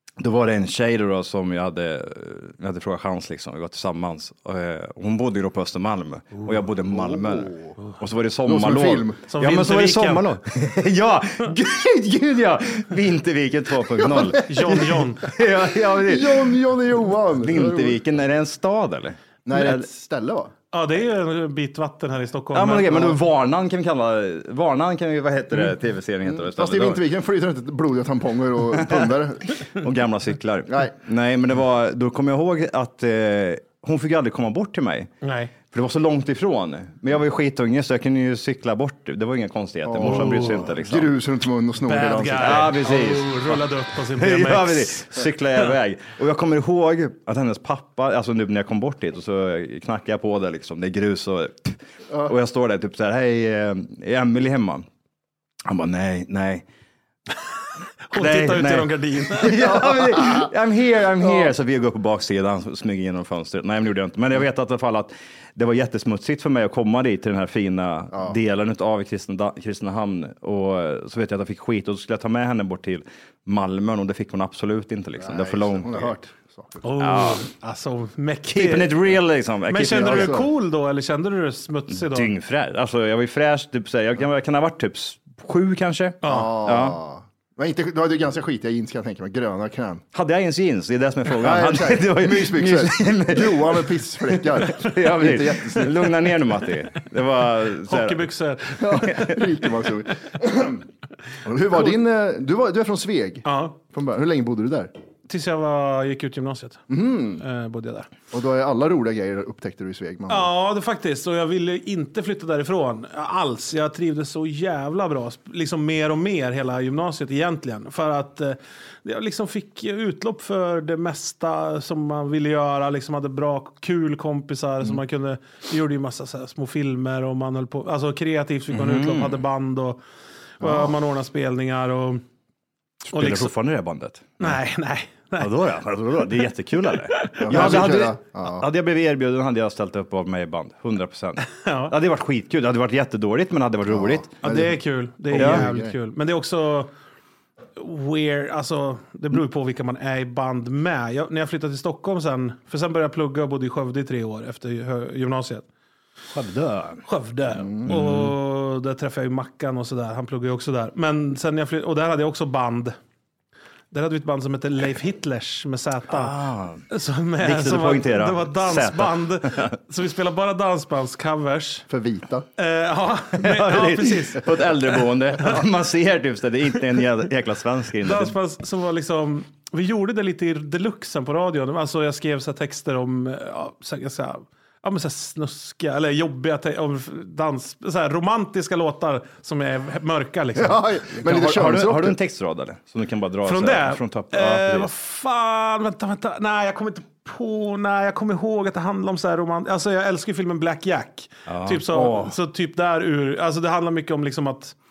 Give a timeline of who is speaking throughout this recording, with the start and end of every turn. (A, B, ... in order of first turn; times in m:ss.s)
0:00.2-0:16.6 A
0:06.9-0:07.8 B
0:08.5-0:09.2 B
0:09.3-0:10.2 C
0:14.0-0:14.4 B
0:14.5-0:15.3 C
0:15.9-0:18.0 B
0:17.4-0:19.9 A
0:19.5-0:20.5 B
0:20.7-0:23.1 C
0:22.5-0:27.0 A
0:26.3-0:29.6 B
0:28.7-0:29.1 A
0:29.7-0:35.1 A
0:35.2-0:35.5 C
0:35.7-0:41.1 A
0:39.9-0:42.7 B
0:40.0-0:40.6 C
0:41.8-0:45.2 C
0:42.4-0:43.6 A
0:44.2-0:54.9 A
0:55.7-0:56.6 A
0:58.1-0:59.6 C
0:58.2-1:16.1 A
0:59.6-1:00.5 B
1:15.2-1:16.8 B
1:16.8-1:19.0 C
1:17.0-1:17.4 A
1:18.5-1:20.4 A
1:19.7-1:22.3 C
1:19.9-1:20.5 B
1:21.9-1:27.0 A
1:26.2-1:26.5 C
1:26.2-1:30.0 B
1:30.1-1:38.3 A
1:31.4-1:36.1 B
1:37.9-1:39.1 C
1:38.8-1:40.8 B
1:41.4-1:44.9 B
1:43.4-1:43.8 C
1:45.3-1:46.8 C
1:46.9-1:47.4 B
1:47.4-1:48.1 C
1:48.3-1:50.5 B
1:50.3-2:10.0 C
2:08.7-2:09.4 A
2:10.6-2:12.2 C
2:10.6-2:10.9 B
2:13.1-2:14.6 A
2:13.1-2:13.5 C
2:14.4-2:15.5 C
2:15.4-2:24.3 A
2:17.2-2:17.8 C
2:17.4-2:18.7 B
2:21.5-2:21.9 C
2:23.9-2:25.9 B
2:24.4-2:26.9 C
2:25.4-2:25.6 A
2:27.8-2:35.7 C
2:36.3-2:37.0 A
2:37.1-2:43.0 C
2:37.6-2:38.0 B
2:37.9-2:38.3 A
2:43.9-2:46.3 C
2:46.1-2:46.8 A
2:46.9-2:51.9 C
2:47.4-2:49.8 A
2:51.9-2:52.5 B
2:52.6-2:54.7 C
2:53.4-2:58.4 A
2:58.0-3:10.8 C
3:10.6-3:12.2 B
3:11.2-3:14.9 A
3:13.4-3:24.8 C
3:21.5-3:22.4 A